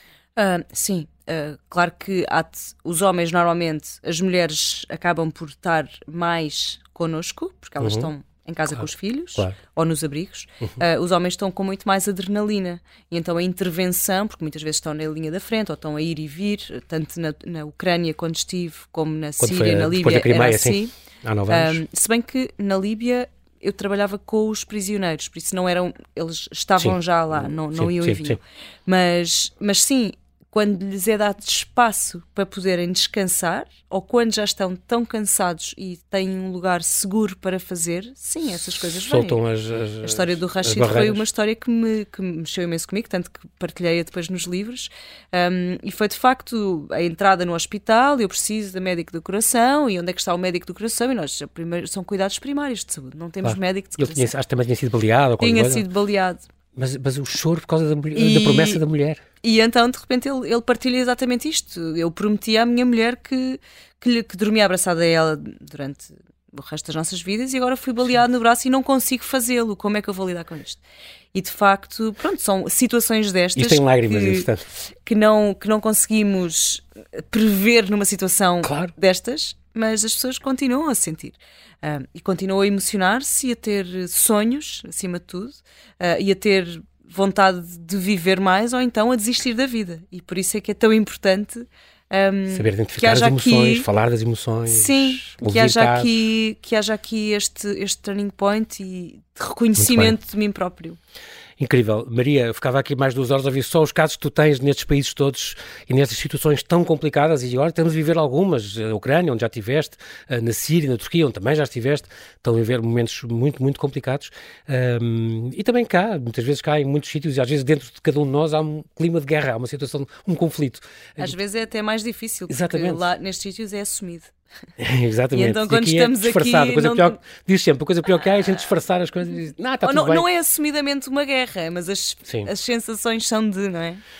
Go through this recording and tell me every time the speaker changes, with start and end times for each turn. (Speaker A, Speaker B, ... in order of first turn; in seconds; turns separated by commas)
Speaker A: 0.4-20.9, Speaker B: 7.8-8.1, Speaker B: 19.4-21.8, Speaker A: 21.5-39.4, Speaker B: 26.8-28.4, Speaker B: 38.8-41.2, Speaker A: 40.0-54.3, Speaker B: 53.4-55.9, Speaker A: 55.4-56.4, Speaker B: 56.8-59.2, Speaker A: 58.1-58.8, Speaker A: 59.4-70.8, Speaker A: 71.3-74.5, Speaker B: 73.6-74.6, Speaker A: 75.1-93.9, Speaker B: 78.6-78.9, Speaker B: 92.5-96.1, Speaker A: 94.7-101.0, Speaker B: 99.8-100.2, Speaker B: 101.6-121.4, Speaker A: 121.2-124.3, Speaker B: 122.5-123.0, Speaker B: 124.8-130.3, Speaker A: 125.3-127.2, Speaker A: 129.8-134.0